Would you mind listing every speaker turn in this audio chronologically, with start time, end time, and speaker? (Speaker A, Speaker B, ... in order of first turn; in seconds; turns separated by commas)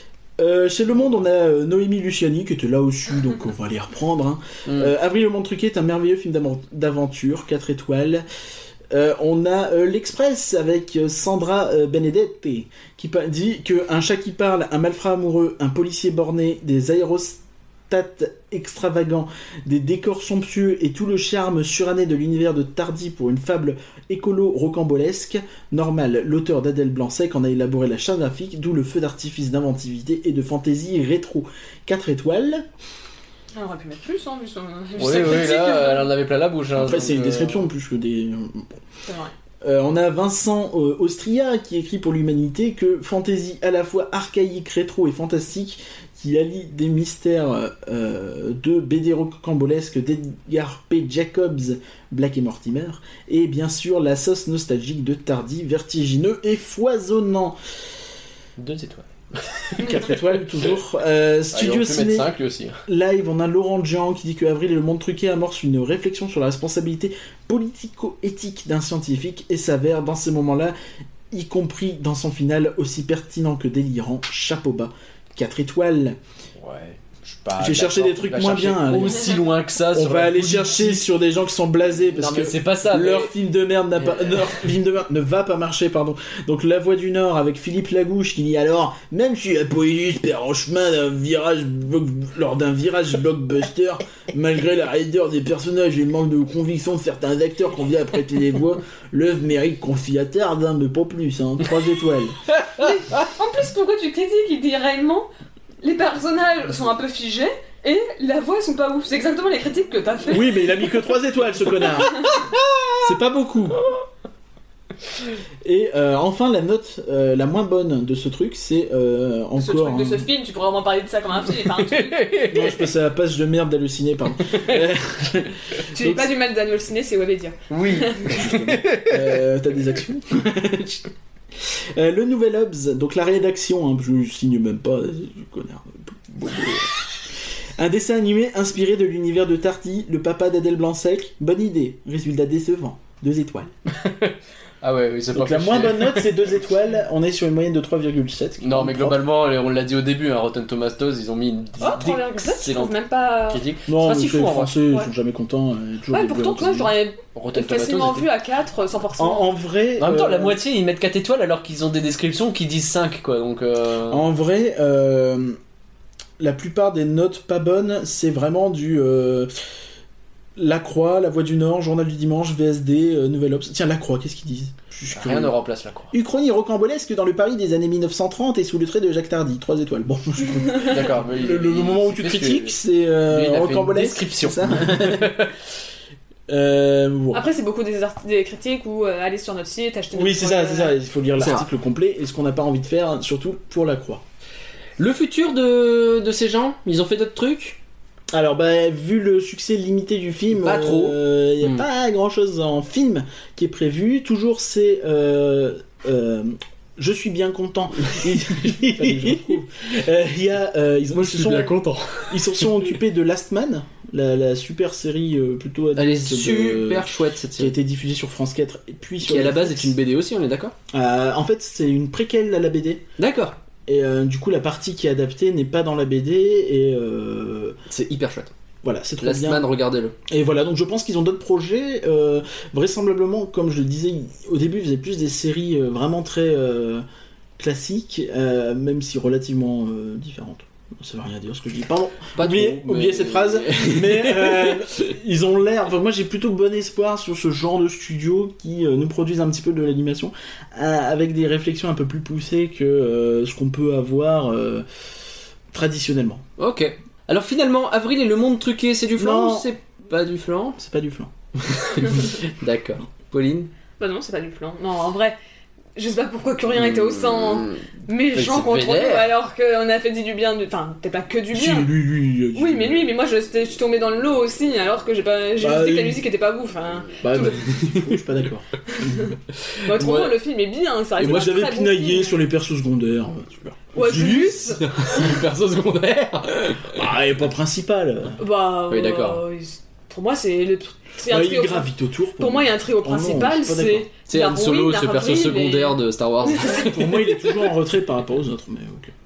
Speaker A: 0.4-8.2, Speaker B: 4.7-4.9, Speaker A: 8.9-32.7, Speaker C: 33.5-36.1, Speaker B: 35.0-37.7, Speaker A: 36.8-38.8, Speaker C: 39.1-39.3, Speaker A: 39.6-57.6, Speaker B: 58.6-59.9, Speaker A: 59.8-62.3, Speaker B: 61.5-62.8, Speaker A: 62.9-70.7, Speaker A: 71.3-76.2, Speaker B: 76.6-81.1, Speaker A: 77.5-102.4, Speaker B: 82.1-83.3, Speaker B: 84.0-84.6, Speaker B: 102.6-102.9, Speaker C: 102.8-105.3, Speaker C: 105.8-110.6, Speaker A: 110.3-112.3, Speaker B: 112.3-112.8, Speaker A: 113.0-113.8, Speaker A: 115.6-120.3, Speaker C: 119.6-122.3, Speaker B: 121.8-122.8, Speaker A: 122.5-126.3, Speaker B: 124.5-124.8, Speaker C: 125.9-128.4, Speaker B: 127.7-129.2, Speaker A: 128.3-136.9, Speaker A: 137.8-143.7, Speaker B: 143.9-146.3, Speaker A: 145.3-149.2, Speaker B: 148.6-152.9, Speaker C: 151.8-153.6, Speaker B: 153.5-154.7, Speaker A: 153.9-156.9, Speaker C: 156.1-159.5, Speaker B: 157.3-158.3, Speaker A: 159.2-160.6, Speaker B: 160.0-164.2, Speaker A: 164.1-165.6, Speaker A: 166.4-169.5, Speaker A: 170.6-175.6, Speaker B: 175.1-176.1, Speaker A: 176.1-185.4, Speaker B: 180.7-185.5, Speaker A: 186.5-187.5, Speaker C: 187.3-190.9, Speaker A: 190.1-194.2, Speaker B: 191.4-191.7, Speaker B: 195.0-197.8, Speaker A: 198.3-220.0, Speaker B: 200.5-201.8, Speaker B: 208.8-209.4, Speaker B: 211.1-212.9, Speaker B: 215.9-217.7, Speaker B: 219.2-220.7, Speaker A: 220.9-223.0, Speaker B: 223.2-223.5, Speaker A: 223.9-227.8, Speaker B: 227.9-228.5, Speaker A: 228.8-229.7, Speaker B: 229.2-230.1, Speaker A: 230.3-237.0, Speaker A: 237.6-254.8, Speaker B: 242.3-245.0, Speaker A: 255.7-256.4, Speaker B: 256.6-260.8, Speaker A: 259.2-259.7, Speaker A: 260.8-261.3, Speaker B: 261.6-263.7, Speaker C: 264.0-265.4, Speaker C: 265.9-271.9, Speaker B: 266.8-267.8, Speaker B: 268.3-269.3, Speaker A: 271.5-273.1, Speaker C: 272.5-277.6, Speaker A: 275.6-276.2, Speaker A: 277.2-279.3, Speaker C: 278.9-282.4, Speaker B: 279.7-280.3, Speaker A: 281.2-284.7, Speaker C: 283.9-285.3, Speaker B: 284.1-287.0, Speaker A: 286.9-288.4, Speaker C: 288.4-297.0, Speaker B: 288.9-289.4, Speaker A: 291.2-294.1, Speaker B: 294.3-297.0, Speaker A: 296.6-299.1